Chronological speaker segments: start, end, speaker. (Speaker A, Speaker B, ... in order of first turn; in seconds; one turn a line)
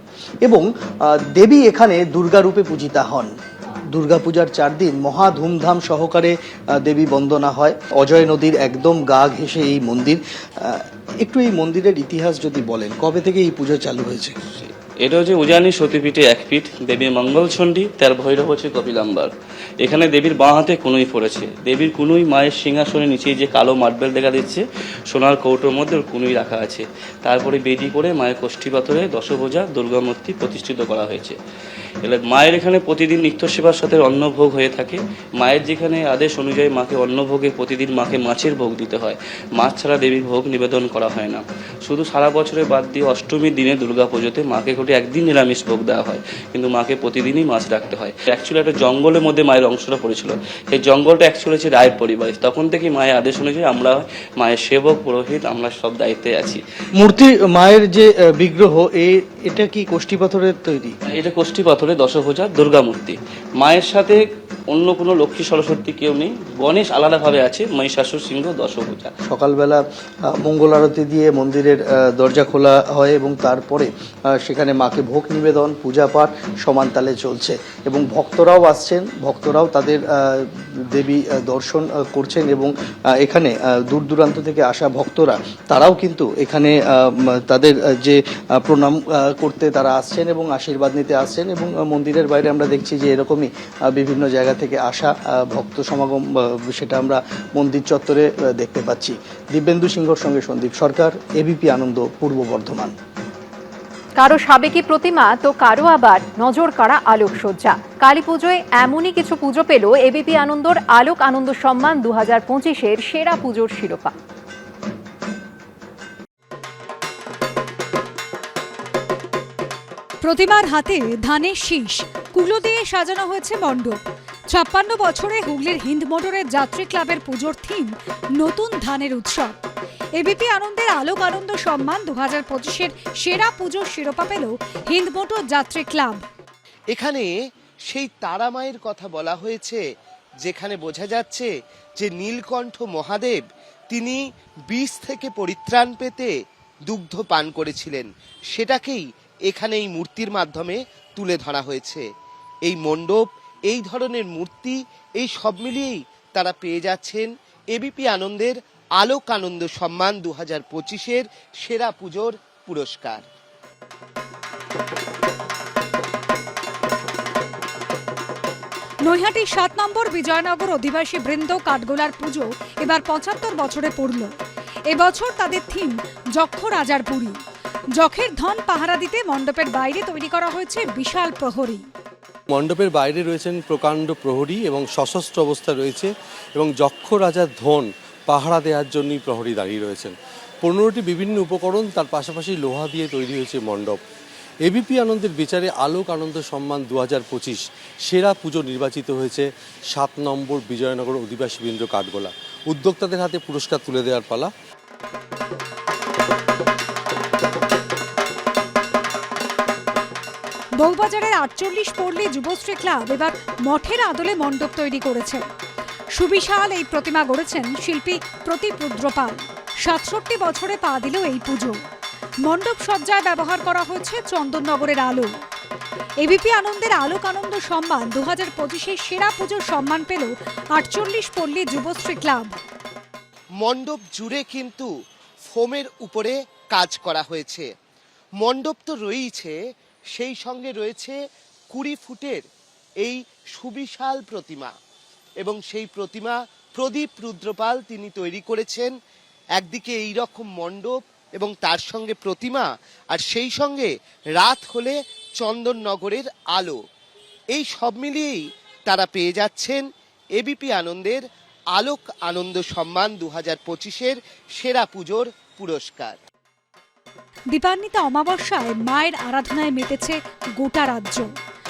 Speaker A: 0.5-3.3
Speaker A: 3.9-14.4
Speaker B: 14.6-31.4
Speaker B: 32.0-56.6
Speaker A: 57.0-61.0
Speaker B: 61.1-69.1
Speaker A: 69.3-69.8
Speaker A: 70.3-102.9
Speaker C: 104.2-114.1
Speaker D: 120.2-124.0
Speaker D: 124.5-129.6
Speaker D: 130.2-136.2
Speaker E: 136.9-137.3
Speaker E: 137.9-139.8
Speaker E: 140.4-146.3
Speaker E: 146.9-152.1
Speaker E: 152.7-163.2
Speaker D: 169.1-174.3
Speaker D: 174.9-177.4
Speaker D: 178.0-181.8
Speaker F: 182.5-194.0
Speaker F: 194.7-204.5
Speaker D: 210.8-215.5
Speaker D: 216.2-221.8
Speaker D: 222.5-225.3
Speaker D: 226.2-232.6
Speaker E: 233.6-234.9
Speaker E: 235.5-237.7
Speaker E: 238.4-239.6
Speaker E: 240.2-241.2
Speaker E: 241.7-242.4
Speaker E: 243.0-244.7
Speaker E: 245.4-248.9
Speaker E: 249.6-256.8
Speaker E: 257.5-261.2
Speaker E: 261.8-266.2
Speaker D: 267.5-271.3